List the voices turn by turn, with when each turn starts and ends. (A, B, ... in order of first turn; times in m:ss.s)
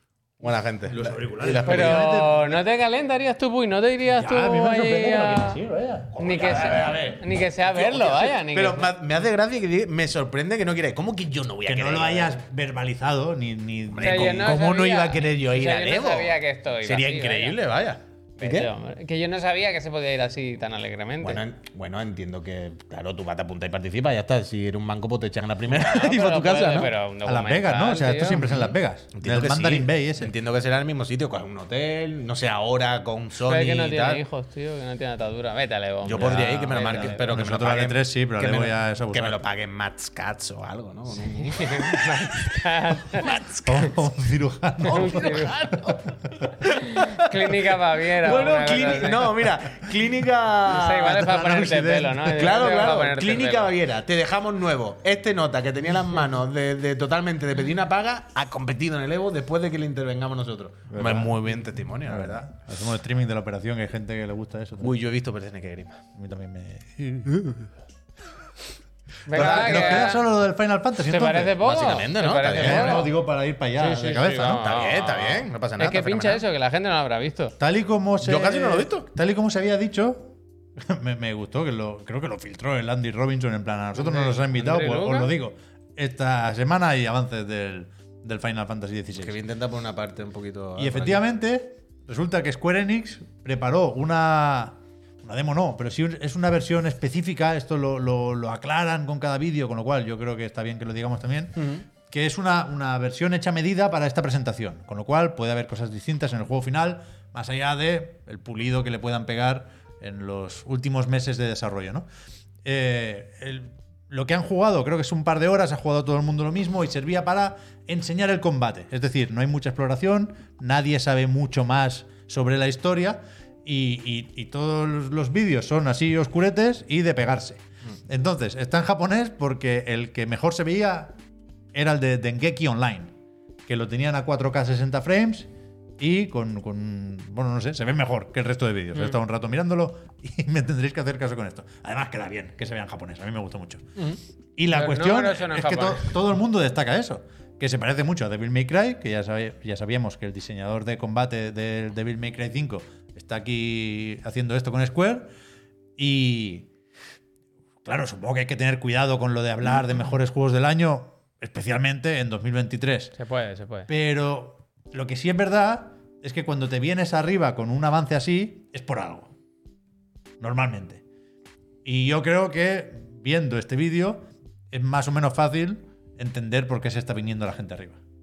0:00.4-0:02.1 A
0:00.9-0:02.6 B
0:01.6-0:05.6 C
0:04.1-0:06.9 B
0:06.1-0:12.4 A
0:06.2-0:08.9 C
0:11.6-0:14.6 B
0:13.9-0:18.7 A
0:14.0-0:17.6 C
0:18.4-0:21.4 C
0:21.2-0:26.9 A
0:25.7-0:28.6 C
0:27.2-0:30.3 B
0:29.1-0:34.2 A
0:33.4-0:37.2 C
0:36.0-0:42.2 A
0:36.1-0:39.4 B
0:41.4-0:43.3 C
0:43.1-0:43.9 A
0:43.6-0:45.5 B
0:44.8-0:46.0 A
0:44.9-0:45.9 C
0:46.6-0:47.3 A
0:46.6-0:49.5 C
0:48.2-0:51.1 A
0:50.7-0:53.7 C
0:50.8-0:52.7 B
0:52.3-1:02.5 A
1:00.9-1:01.4 B
1:02.0-1:05.0 B
1:04.8-1:06.0 A
1:06.2-1:07.5 B
1:09.3-1:10.3 C
1:09.3-1:11.7 B
1:09.3-1:10.1 A
1:11.0-1:13.1 C
1:11.6-1:13.0 A
1:12.5-1:14.6 B
1:13.8-1:17.6 C
1:14.6-1:16.4 A
1:17.6-1:29.4 B
1:18.2-1:19.0 A
1:24.0-1:25.3 C
1:29.1-1:31.2 A
1:30.8-1:52.0 B
1:41.6-1:41.8 A
1:52.6-2:11.1 B
2:11.7-2:13.1 B
2:13.6-2:23.9 B
2:24.6-2:35.3 B
2:24.7-2:26.1 C
2:36.0-2:36.7 B
2:37.8-2:43.2 B
2:43.2-2:43.9 C
2:43.9-2:49.3 B
2:50.4-2:51.0 B
2:51.8-2:58.0 B